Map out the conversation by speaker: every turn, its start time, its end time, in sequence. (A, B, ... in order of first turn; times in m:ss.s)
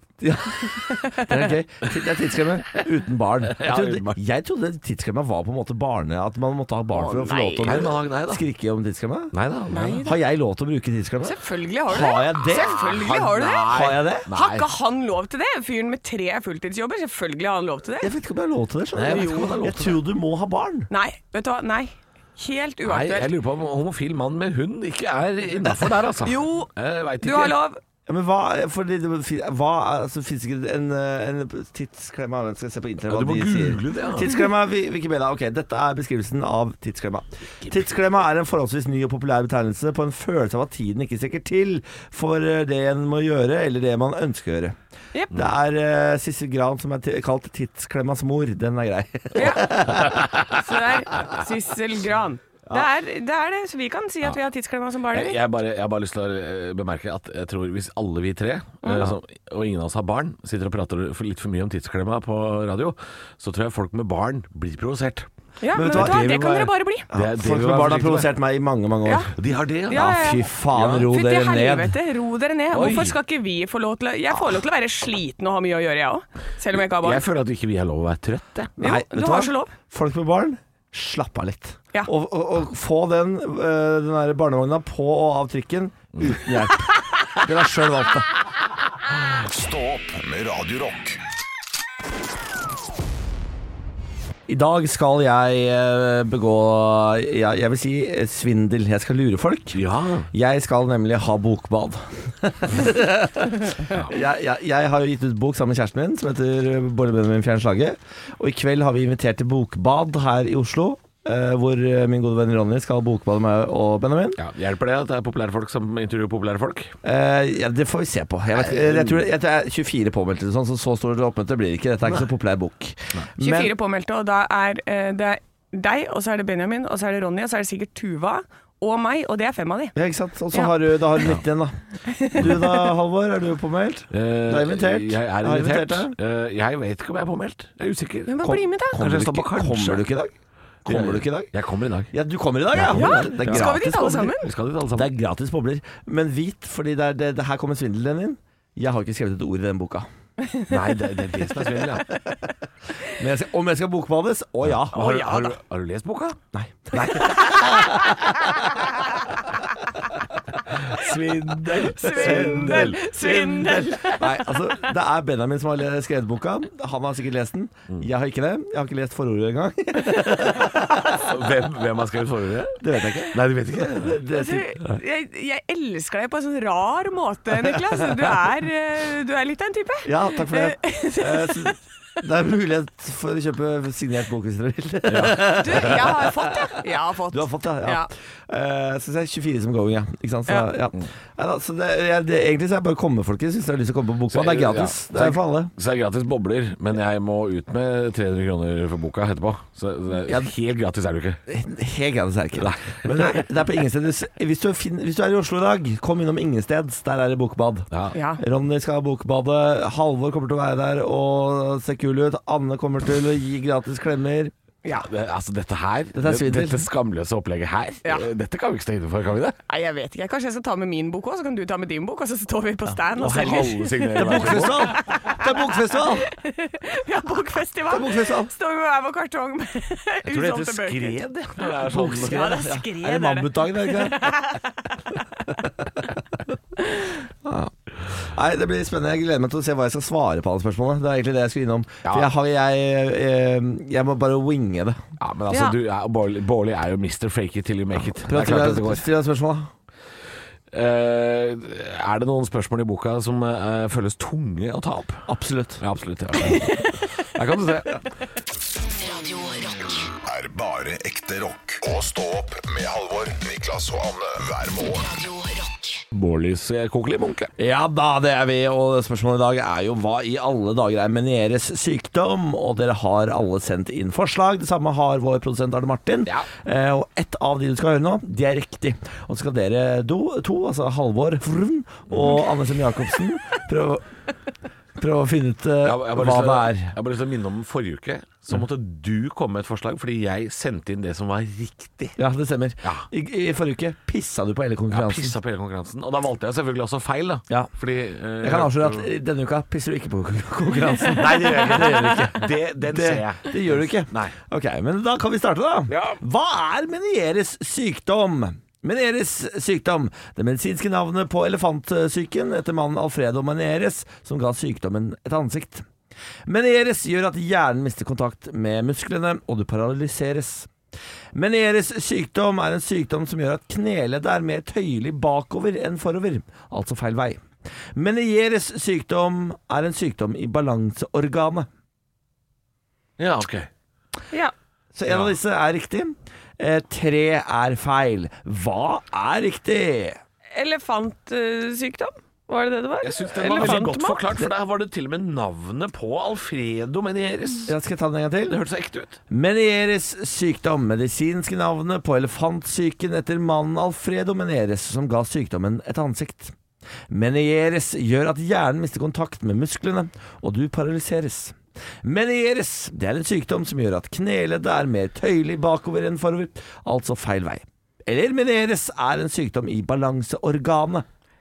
0:00.2-0:09.3 A
0:00.9-0:01.4 B
0:03.5-0:04.2 C
0:06.9-0:07.8 B
0:07.6-0:08.4 C
0:09.3-0:10.0 C
0:09.7-0:10.2 B
0:10.0-0:12.9 A
0:11.2-0:13.7 B
0:12.6-0:14.7 C
0:13.6-0:14.3 A
0:14.3-0:18.1 B
0:18.0-0:20.9 A
0:19.0-0:20.0 C
0:19.1-0:19.6 B
0:20.9-0:23.3 B
0:22.8-0:27.6 C
0:26.2-0:26.7 B
0:27.2-0:27.8 B
0:28.1-0:44.8 A
0:33.1-0:34.3 C
0:45.3-0:50.4 A
0:49.3-0:49.9 B
0:49.4-0:50.6 C
0:50.5-0:55.4 B
0:55.1-1:05.3 C
0:58.8-0:59.1 B
1:05.6-1:07.1 B
1:05.7-1:06.2 A
1:05.8-1:08.3 C
1:07.1-1:09.3 A
1:09.3-1:10.1 C
1:09.9-1:10.4 B
1:09.9-1:12.0 A
1:10.7-1:11.1 C
1:11.0-1:17.2 B
1:12.7-1:13.2 C
1:16.7-1:18.7 C
1:18.8-1:19.7 B
1:18.8-1:28.3 A
1:29.3-1:31.2 D
1:34.5-1:54.4 A
1:39.7-1:40.3 C
1:54.4-1:56.9 C
1:57.0-2:03.7 A
1:58.5-1:59.3 C
2:03.4-2:09.9 B
2:09.9-2:11.8 A
2:12.1-2:12.9 B
2:12.3-2:16.1 A
2:14.1-2:20.0 C
2:18.2-2:19.0 B
2:18.4-2:20.3 A
2:20.8-2:21.5 A
2:20.8-2:22.1 C
2:22.1-2:24.3 A
2:22.7-2:23.8 C
2:22.9-2:24.5 B
2:24.4-2:25.1 C
2:24.9-2:30.1 A
2:30.7-2:32.0 C
2:33.1-2:35.1 A
2:34.8-2:36.4 C
2:34.9-2:35.5 B
2:36.5-2:38.6 A
2:40.7-2:43.0 C
2:41.8-2:44.4 B
2:42.0-2:51.3 A
2:51.1-2:54.2 C
2:52.8-2:54.8 A
2:54.3-3:01.7 B
3:00.0-3:15.7 A
3:05.1-3:06.0 C
3:05.5-3:08.1 B
3:14.3-3:21.4 C
3:21.5-3:34.5 A
3:22.6-3:23.4 C
3:27.9-3:28.2 C
3:28.1-3:28.4 B
3:35.0-3:39.6 C
3:36.1-3:36.8 A
3:39.7-3:51.2 B
3:43.2-3:45.0 C
3:43.2-3:46.3 A
3:47.9-3:48.5 A
3:50.2-3:52.6 C
3:51.8-3:54.3 A
3:52.1-3:54.9 B
3:57.4-4:05.0 A
4:05.2-4:09.0 C
4:05.5-4:05.7 B
4:08.2-4:09.7 A
4:10.7-4:15.3 C
4:15.3-4:15.8 A
4:15.8-4:18.0 C
4:18.8-4:20.1 E
4:20.2-4:25.2 D
4:24.9-4:26.0 E
4:26.1-4:27.5 C
4:27.6-4:44.0 A
4:45.0-4:46.9 A
4:45.8-4:52.2 C
4:52.2-4:55.4 A
4:54.9-4:59.1 C
4:58.4-5:15.9 A
5:01.2-5:04.3 C
5:05.9-5:06.2 C
5:16.5-5:20.7 A
5:21.3-5:27.4 A
5:27.9-5:31.7 A
5:33.2-5:33.7 C
5:34.9-5:40.2 A
5:35.0-5:35.3 C
5:40.5-5:44.2 B
5:43.0-5:47.7 C
5:43.5-5:43.8 A
5:47.7-5:48.6 A
5:48.5-5:49.2 C
5:49.3-5:56.5 A
5:57.1-6:11.0 A